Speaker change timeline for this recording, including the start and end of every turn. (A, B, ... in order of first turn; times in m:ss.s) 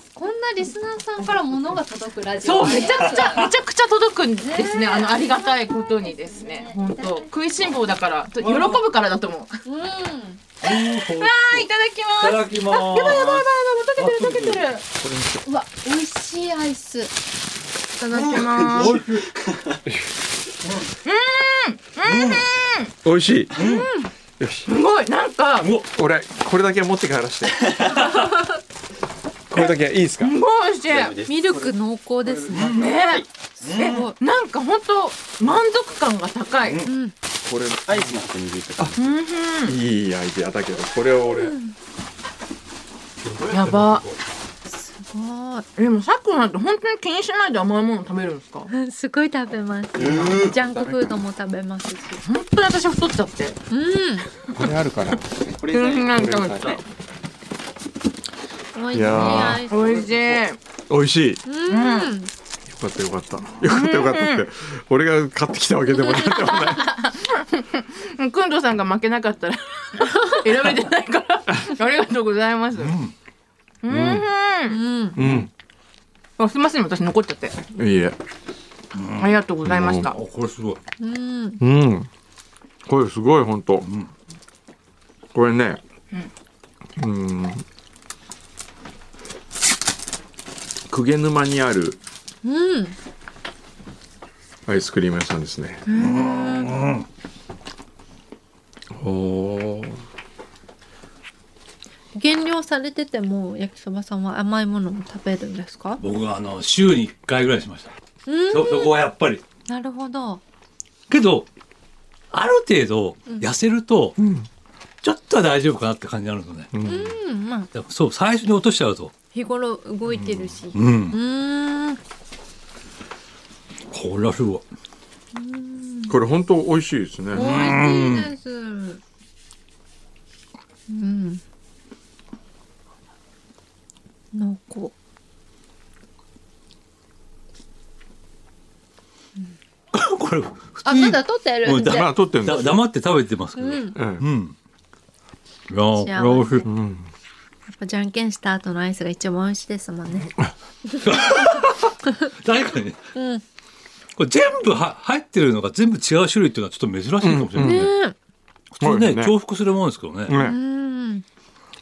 0:00.1-0:03.4 A
0:02.4-0:09.6 B
0:04.4-0:07.3 A
0:08.4-0:08.8 C
0:09.6-0:10.4 A
0:10.6-0:11.7 C
0:10.6-0:14.8 B
0:12.2-0:14.6 C
0:15.0-0:15.5 D
0:15.5-0:17.1 A
0:18.0-0:19.0 B
0:18.2-0:19.2 C
0:18.6-0:19.2 D
0:21.0-0:22.9 B
0:22.0-0:22.5 C
0:23.0-0:23.6 D
0:23.6-0:23.9 C
0:23.6-0:24.1 A
0:24.4-0:24.7 D
0:24.7-0:25.7 B
0:25.9-0:28.0 D
0:29.5-0:30.4 D
0:29.6-0:31.2 B
0:30.9-0:31.5 E
0:31.2-0:32.8 A
0:32.6-0:36.9 B
0:33.6-0:34.0 C
0:33.7-0:34.2 A
0:36.8-0:37.1 A
0:37.4-0:38.2 D
0:37.9-0:39.0 E
0:39.0-0:39.8 B
0:39.6-0:41.6 D
0:41.4-0:41.7 A
0:43.5-0:44.1 B
0:44.7-0:45.7 A
0:45.8-0:48.7 B
0:48.7-0:52.2 A
0:50.0-0:51.0 D
0:50.0-0:50.4 E
0:52.2-0:53.6 B
0:53.7-0:54.3 A
0:54.6-0:55.3 D
0:55.4-0:56.8 E
0:55.7-0:56.8 B
0:56.3-0:56.7 D
0:58.7-1:00.0 A
0:58.9-0:59.7 D
0:59.2-1:00.6 B
1:00.9-1:01.4 D
1:01.5-1:02.3 A
1:01.7-1:02.1 B
1:02.7-1:07.0 D
1:03.7-1:04.4 B
1:06.5-1:13.0 B
1:12.8-1:13.1 C
1:13.8-1:14.8 B
1:13.9-1:14.3 D
1:14.7-1:15.2 A
1:15.2-1:15.5 D
1:16.4-1:17.6 B
1:17.7-1:18.2 D
1:18.9-1:20.8 C
1:19.2-1:20.2 B
1:19.7-1:20.1 D
1:21.0-1:21.6 A
1:21.6-1:22.1 D
1:22.8-1:23.9 D
1:23.8-1:24.1 C
1:25.3-1:25.8 D
1:27.0-1:27.6 D
1:30.9-1:32.0 D
1:32.4-1:33.0 A
1:34.7-1:35.8 D
1:35.9-1:36.8 A
1:36.0-1:37.1 C
1:38.9-1:40.0 D
1:42.1-1:46.0 A
1:46.0-1:47.9 C
1:48.3-1:49.0 A
1:48.5-1:49.4 C
1:49.7-1:50.4 A
1:51.1-1:51.5 C
1:52.3-1:54.2 C
1:54.2-1:54.5 D
1:55.0-1:56.7 C
1:56.7-1:57.1 D
1:56.8-1:57.7 A
1:57.7-1:59.2 C
1:59.3-2:02.0 A
2:00.7-2:01.2 C
2:03.9-2:04.6 C
2:05.4-2:06.2 A
2:06.1-2:07.7 D
2:07.3-2:09.0 A
2:07.4-2:08.3 C
2:10.9-2:11.4 A
2:14.3-2:14.9 A
2:19.9-2:24.6 C
2:20.9-2:22.1 A
2:21.8-2:22.8 D
2:23.6-2:24.0 A
2:24.0-2:24.2 D
2:25.7-2:26.7 C
2:26.0-2:26.7 A
2:26.7-2:27.1 D
2:27.7-2:30.3 A
2:31.0-2:33.0 C
2:33.1-2:33.4 A
2:34.2-2:37.9 C
2:37.2-2:37.9 D
2:37.6-2:38.2 A
2:38.8-2:40.4 C
2:38.8-2:39.4 D
2:40.3-2:40.6 D
2:40.4-2:41.2 A